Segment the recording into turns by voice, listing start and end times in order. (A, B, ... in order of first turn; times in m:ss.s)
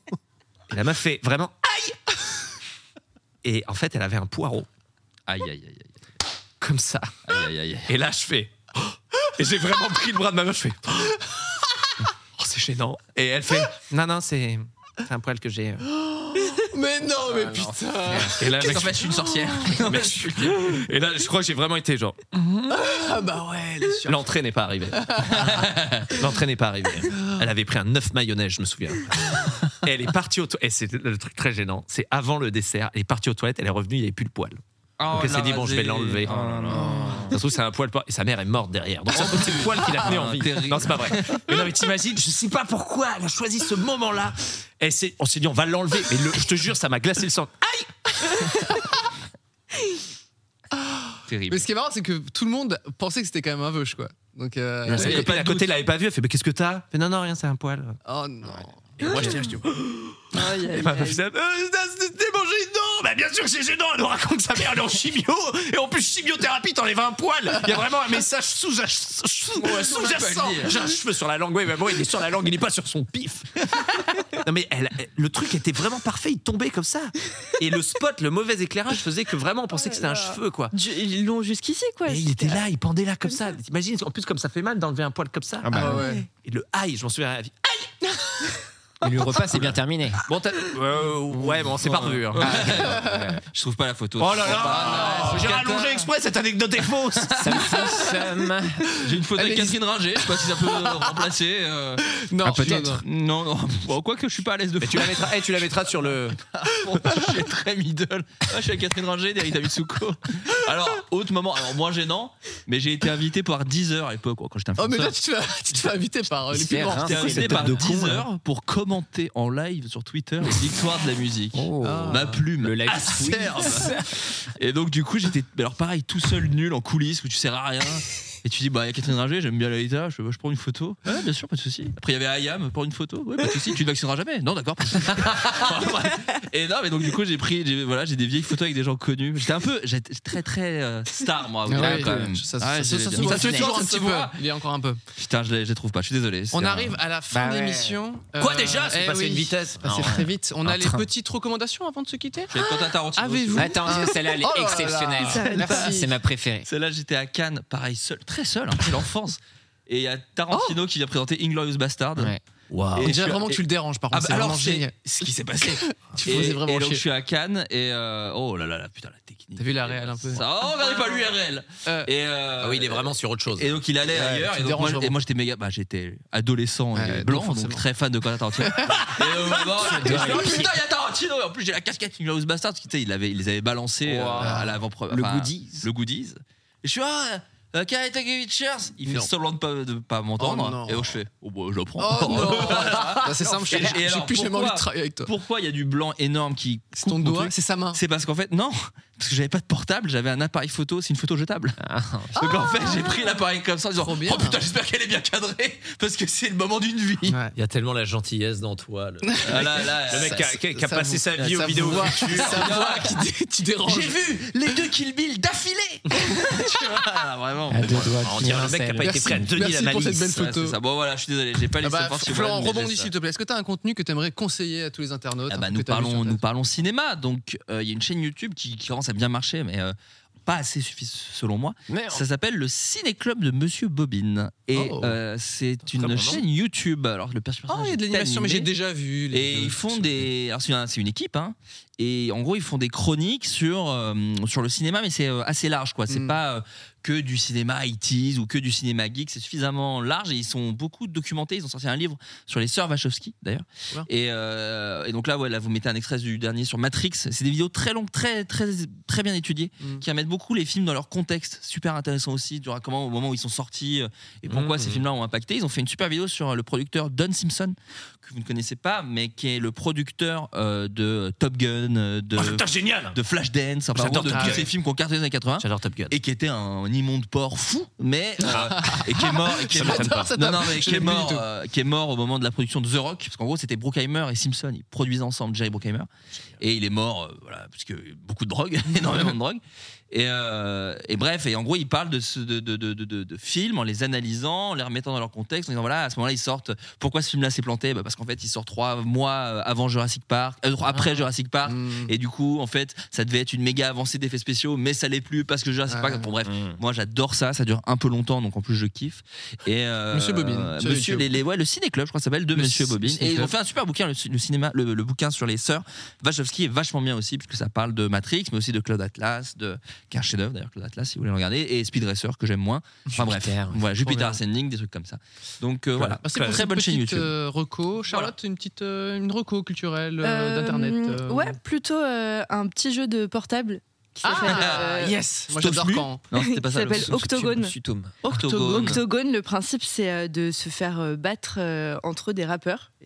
0:00.7-0:02.1 A
0:03.4-0:04.7 A
0:05.3-0:06.0 B
0:06.6-0:07.2 A
0:07.3-0:07.9 B
0:07.9-0:11.3 A
0:12.4-0:15.9 A
0:16.0-0:19.8 C
0:18.1-0:18.3 D
0:18.4-0:22.8 A
0:18.4-0:20.6 B
0:22.7-0:24.3 C
0:24.0-0:34.6 A
0:25.0-0:25.5 C
0:25.3-0:26.2 B
0:27.1-0:27.4 C
0:35.0-0:37.3 B
0:35.1-0:48.6 A
0:36.3-0:37.3 D
0:39.1-0:41.5 B
0:50.7-0:55.3 C
0:51.3-0:51.7 B
0:54.9-0:55.7 B
0:54.9-0:58.0 A
0:58.0-0:59.2 C
0:59.0-0:59.4 E
0:59.0-1:20.7 A
1:00.3-1:01.2 E
1:09.6-1:10.8 B
1:20.7-1:22.6 E
1:22.1-1:28.2 A
1:25.6-1:26.1 D
1:25.8-1:26.2 C
1:25.8-1:26.2 E
1:29.0-1:30.2 D
1:30.3-1:32.8 A
1:31.8-1:36.1 B
1:32.4-1:33.4 D
1:32.7-1:33.1 C
1:34.2-1:37.3 A
1:34.5-1:35.7 C
1:37.2-1:38.0 B
1:37.4-1:38.9 D
1:39.0-1:45.5 B
1:39.4-1:41.3 C
1:42.0-1:43.0 C
1:42.6-1:43.0 D
1:44.8-1:46.4 A
1:46.5-1:55.1 B
1:46.9-1:47.3 C
1:54.8-1:57.9 C
1:56.5-1:58.2 D
1:56.9-2:24.4 B
1:57.5-1:57.9 A
2:01.5-2:04.1 D
2:01.8-2:02.5 C
2:15.4-2:16.1 A
2:21.7-2:25.0 C
2:21.7-2:22.4 D
2:23.2-2:23.7 D
2:25.2-2:27.0 B
2:26.5-2:36.1 C
2:27.3-2:28.0 D
2:28.4-2:29.9 A
2:29.8-2:31.1 D
2:32.5-2:34.1 B
2:32.6-2:32.8 D
2:33.5-2:36.7 D
2:35.2-2:35.9 E
2:36.6-2:42.4 B
2:42.7-2:43.1 A
2:43.0-3:21.8 B
2:43.0-2:47.0 C
2:49.6-2:51.2 C
2:51.8-2:52.1 C
2:52.6-2:53.8 A
2:54.1-2:55.2 C
2:56.9-2:57.9 C
2:58.6-3:00.6 C
2:59.0-3:00.6 A
2:59.9-3:00.7 D
3:04.0-3:05.9 D
3:04.4-3:04.8 C
3:09.0-3:09.3 C
3:10.4-3:11.2 C
3:12.0-3:15.3 C
3:17.0-3:18.0 C
3:21.8-3:22.4 D
3:22.3-3:27.4 B
3:24.0-3:24.6 C
3:27.3-3:27.5 C
3:27.5-3:32.8 A
3:29.3-3:34.4 C
3:29.4-3:30.5 B
3:31.3-3:33.2 B
3:33.8-3:38.2 B
3:37.7-3:39.5 D
3:37.9-3:40.6 A
3:39.0-3:40.8 C
3:40.4-3:43.1 B
3:41.8-3:46.4 C
3:45.5-3:58.7 B
3:51.9-3:52.2 D
3:54.7-3:55.2 C
3:55.9-3:56.4 A
3:57.7-4:00.3 C
3:59.3-4:46.1 B
4:06.1-4:06.4 C
4:19.8-4:20.0 C
4:24.5-4:25.0 A
4:32.4-4:33.2 A
4:33.9-4:34.7 A
4:34.2-4:34.7 C
4:35.6-4:36.1 A
4:38.4-4:41.4 C
4:38.4-4:39.1 A
4:39.7-4:40.3 A
4:46.6-5:27.3 B
5:01.0-5:02.1 C
5:05.9-5:06.3 C
5:10.1-5:11.3 C
5:12.5-5:13.5 C
5:23.2-5:24.4 D
5:26.0-5:26.6 A
5:26.2-5:31.6 C
5:30.2-5:35.2 E
5:34.2-5:36.3 C
5:34.4-5:37.6 B
5:36.4-5:42.9 E
5:37.0-5:38.1 D
5:38.3-5:39.0 B